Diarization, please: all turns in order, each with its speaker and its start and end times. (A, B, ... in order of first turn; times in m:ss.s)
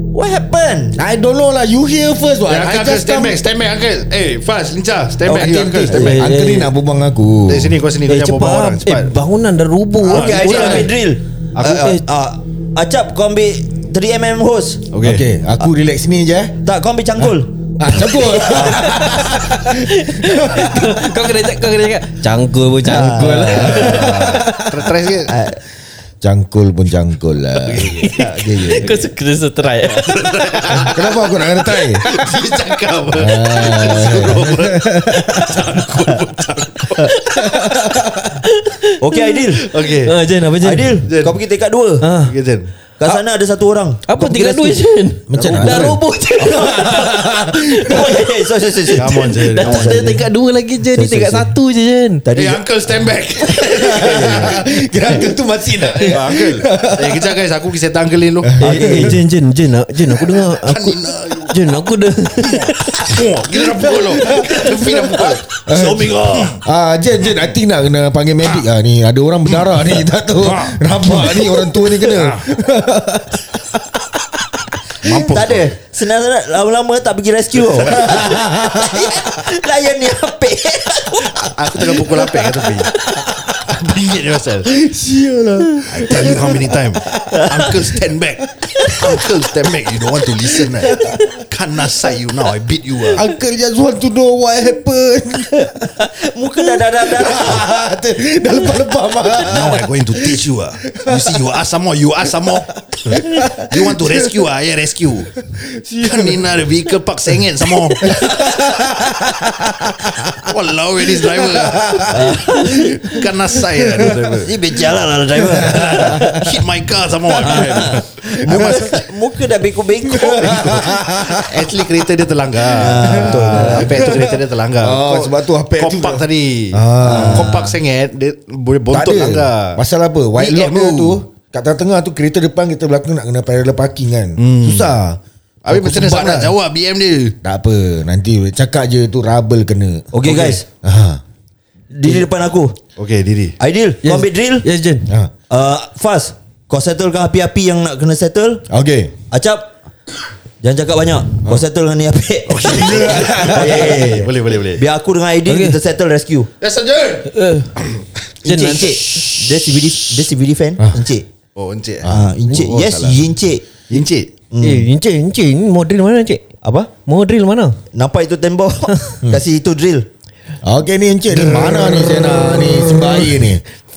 0:00.1-0:01.0 A
0:01.0-0:03.4 B
0:02.5-0:06.2 C
0:05.2-0:06.1 A
0:05.8-0:07.8 B
0:05.9-0:06.7 D
0:07.4-0:09.1 C
0:08.1-0:10.9 D
0:10.0-0:14.9 A
0:10.0-0:10.9 C
0:11.5-0:12.0 C
0:14.9-0:15.3 C
0:15.0-0:16.6 B
0:16.6-0:19.0 A
0:17.8-0:21.0 B
0:18.7-0:24.2 D
0:22.8-0:24.1 A
0:22.9-0:24.9 B
0:23.4-0:25.3 C
0:25.3-0:25.6 A
0:26.2-0:28.0 B
0:27.6-0:29.1 C
0:28.0-0:30.9 D
0:28.1-0:28.9 A
0:29.9-0:37.2 C
0:30.7-0:32.0 B
0:33.1-0:35.6 B
0:37.0-0:39.5 D
0:37.4-0:38.3 B
0:39.0-0:39.6 A
0:39.7-0:40.2 C
0:40.0-0:41.0 D
0:40.6-0:42.1 A
0:41.0-0:41.4 C
0:42.0-0:42.4 D
0:42.2-0:42.7 C
0:43.0-0:44.8 A
0:44.1-0:48.3 D
0:45.3-0:48.2 B
0:45.4-0:45.8 C
0:47.8-0:50.2 A
0:48.9-0:52.2 D
0:49.0-0:50.1 C
0:50.9-0:51.5 A
0:52.2-0:52.6 A
0:52.3-0:54.6 C
0:53.5-0:54.6 A
0:53.6-0:57.3 B
0:56.0-0:58.8 C
0:58.4-0:59.2 B
0:58.6-1:03.2 D
0:58.6-0:59.1 A
1:00.3-1:06.6 C
1:03.5-1:14.4 B
1:05.3-1:06.5 A
1:10.4-1:12.4 C
1:15.0-1:15.8 C
1:15.1-1:22.2 A
1:17.9-1:19.2 B
1:21.4-1:22.9 C
1:23.2-1:23.8 B
1:23.7-1:24.7 C
1:24.6-1:27.7 B
1:25.9-1:33.2 C
1:28.6-1:29.2 B
1:30.4-1:31.3 B
1:33.1-1:35.9 B
1:36.2-1:37.7 A
1:37.0-1:41.4 B
1:39.4-1:45.4 C
1:43.0-1:44.2 B
1:45.5-1:46.4 B
1:46.0-1:48.7 C
1:48.0-1:50.5 B
1:50.3-1:52.4 C
1:51.2-1:53.2 B
1:52.1-1:53.0 A
1:53.0-1:54.6 C
1:54.4-1:56.4 A
1:55.4-1:56.4 B
1:55.6-1:58.4 C
1:57.4-2:00.9 A
1:58.4-1:59.0 B
2:00.1-2:01.7 B
2:00.4-2:09.8 C
2:02.7-2:04.1 A
2:03.0-2:07.7 B
2:07.0-2:07.7 A
2:08.9-2:16.5 B
2:10.4-2:11.2 C
2:14.4-2:14.9 C
2:15.6-2:17.4 C
2:17.4-2:20.2 B
2:20.1-2:20.6 A
2:20.2-2:20.6 C
2:20.8-2:21.2 B
2:21.9-2:22.8 A
2:23.0-2:23.6 C
2:23.6-2:24.6 A
2:24.0-2:25.1 D
2:25.1-2:25.3 B
2:25.5-2:28.6 A
2:28.7-2:29.1 B
2:29.3-2:29.7 A
2:30.6-2:36.5 A
2:32.5-2:34.8 C
2:32.6-2:34.1 B
2:35.5-2:35.8 D
2:36.6-2:38.0 C
2:37.3-2:37.7 D
2:38.4-2:38.9 D
2:38.4-2:41.2 A
2:41.6-2:43.3 C
2:42.0-2:42.3 B
2:42.0-2:43.6 A
2:43.9-2:44.3 C
2:44.5-2:44.9 A
2:44.6-2:46.4 D
2:46.6-2:46.9 A
2:47.0-2:47.8 D
2:47.9-2:50.1 A
2:50.6-2:53.6 B
2:51.6-2:52.7 C